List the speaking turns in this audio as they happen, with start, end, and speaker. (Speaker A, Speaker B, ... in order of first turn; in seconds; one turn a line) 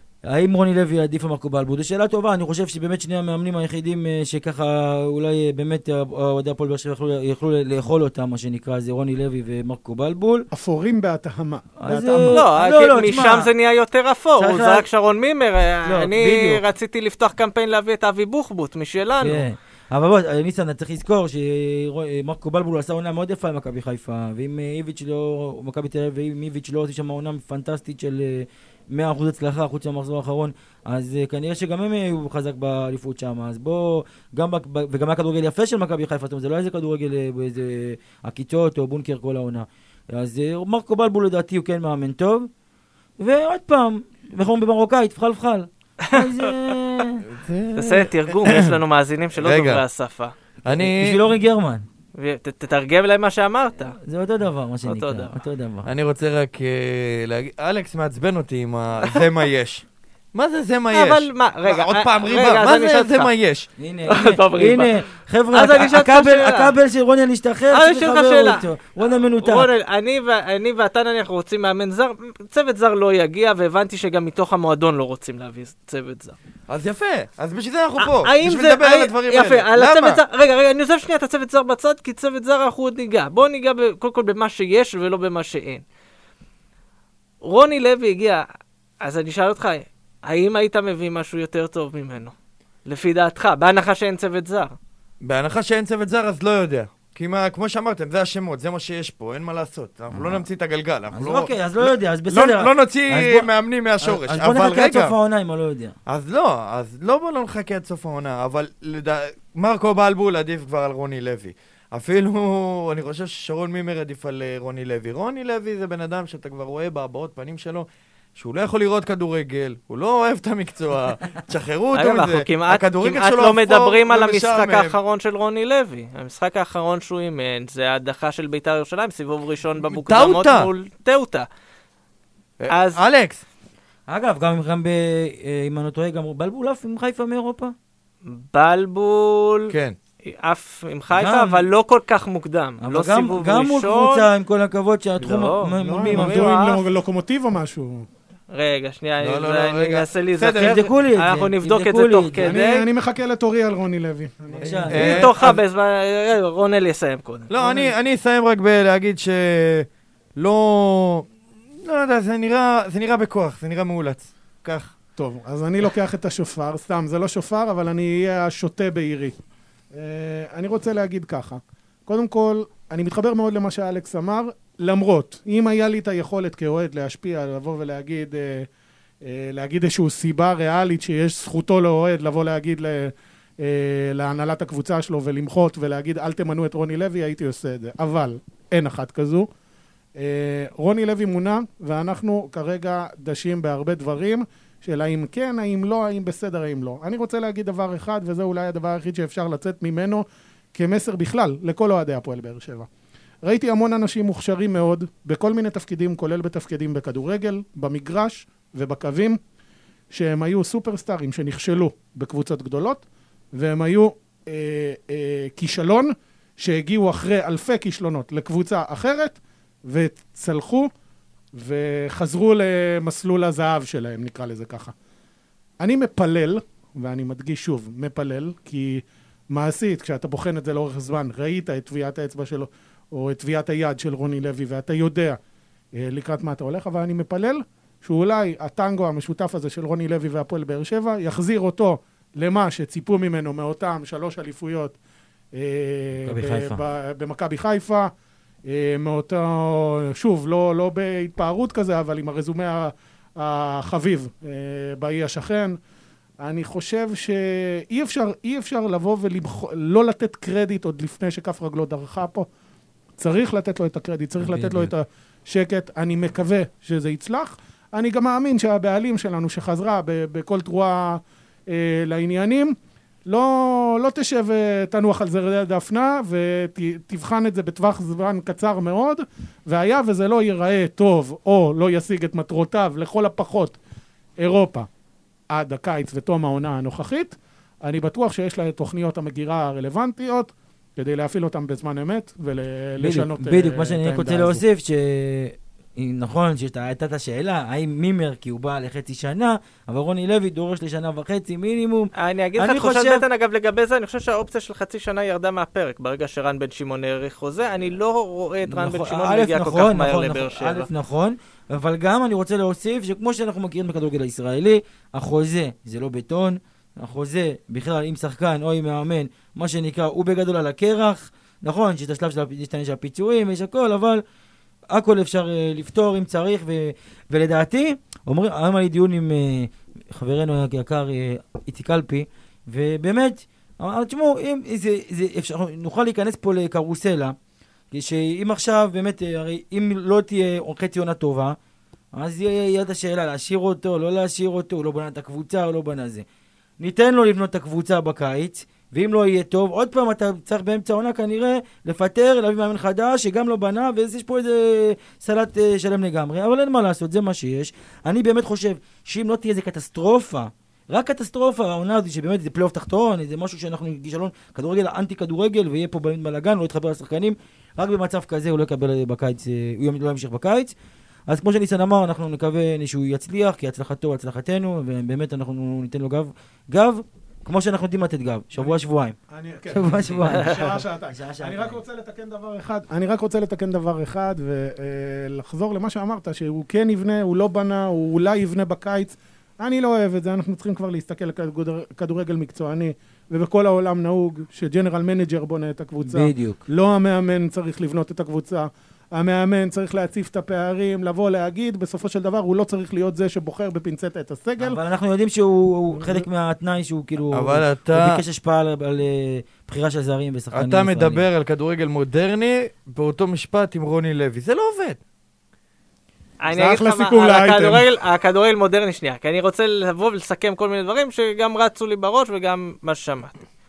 Speaker A: 0.3-10.5
Speaker B: 10.5-12.4
Speaker A: 11.8-13.5
Speaker C: 12.3-19.4
Speaker A: 14.4-14.8
Speaker A: 15.9-16.6
Speaker A: 19.2-42.5
Speaker A: 43.2-47.2
Speaker C: 46.1-46.5
Speaker D: 47.3-48.8
Speaker C: 47.8-50.3
Speaker D: 49.4-49.8
Speaker D: 50.6-51.2
Speaker A: 50.7-51.9
Speaker C: 52.2-54.0
Speaker A: 54.0-55.9
Speaker C: 54.9-55.4
Speaker D: 55.9-63.7
Speaker C: 60.9-63.3
Speaker A: 63.8-69.7
Speaker C: 64.1-66.7
Speaker C: 67.7-76.4
Speaker D: 76.7-80.2
Speaker C: 78.0-85.8
Speaker C: 87.4-88.5
Speaker C: 89.0-92.3
Speaker C: 92.9-94.8
Speaker D: 95.2-105.2
Speaker A: 100.1-100.4
Speaker A: 101.1-103.5
Speaker A: 104.0-106.0
Speaker D: 106.1-125.0
Speaker C: 121.9-131.5
Speaker D: 129.9-130.7
Speaker D: 132.6-133.4
Speaker C: 132.7-133.0
Speaker A: 134.1-137.7
Speaker C: 138.2-144.3
Speaker D: 139.7-140.0
Speaker A: 141.1-141.7
Speaker A: 142.8-146.5
Speaker C: 145.2-146.8
Speaker B: 145.8-148.1
Speaker C: 148.5-152.9
Speaker D: 149.2-150.9
Speaker A: 150.5-152.5
Speaker B: 152.4-155.2
Speaker D: 154.5-155.6
Speaker A: 154.6-155.2
Speaker C: 154.9-157.5
Speaker D: 157.5-161.3
Speaker B: 157.6-157.9
Speaker D: 161.8-164.9
Speaker B: 165.2-169.4
Speaker B: 169.9-178.7
Speaker B: 179.2-189.5
Speaker B: 190.2-202.9
Speaker B: 203.4-209.4
Speaker B: 210.1-220.9
Speaker B: 221.6-224.9
Speaker B: 225.8-235.4
Speaker B: 236.0-245.0
Speaker B: 245.5-248.1
Speaker A: 246.2-246.8
Speaker B: 248.7-255.8
Speaker B: 256.4-262.5
Speaker B: 263.2-272.8
Speaker A: 264.4-264.9
Speaker B: 273.3-283.8
Speaker B: 284.4-284.9
Speaker B: 285.5-294.6
Speaker A: 293.0-303.2
Speaker C: 302.2-310.9
Speaker A: 308.7-324.2
Speaker A: 324.9-337.4
Speaker A: 337.9-341.6
Speaker A: 342.1-346.2
Speaker A: 346.8-370.8
Speaker A: 371.3-379.2
Speaker B: 378.6-404.8
Speaker A: 379.7-381.8
Speaker C: 380.4-380.7
Speaker A: 396.0-396.6
Speaker A: 404.6-411.2
Speaker D: 407.3-408.2
Speaker D: 410.5-415.0
Speaker C: 416.4-423.4
Speaker B: 416.5-417.9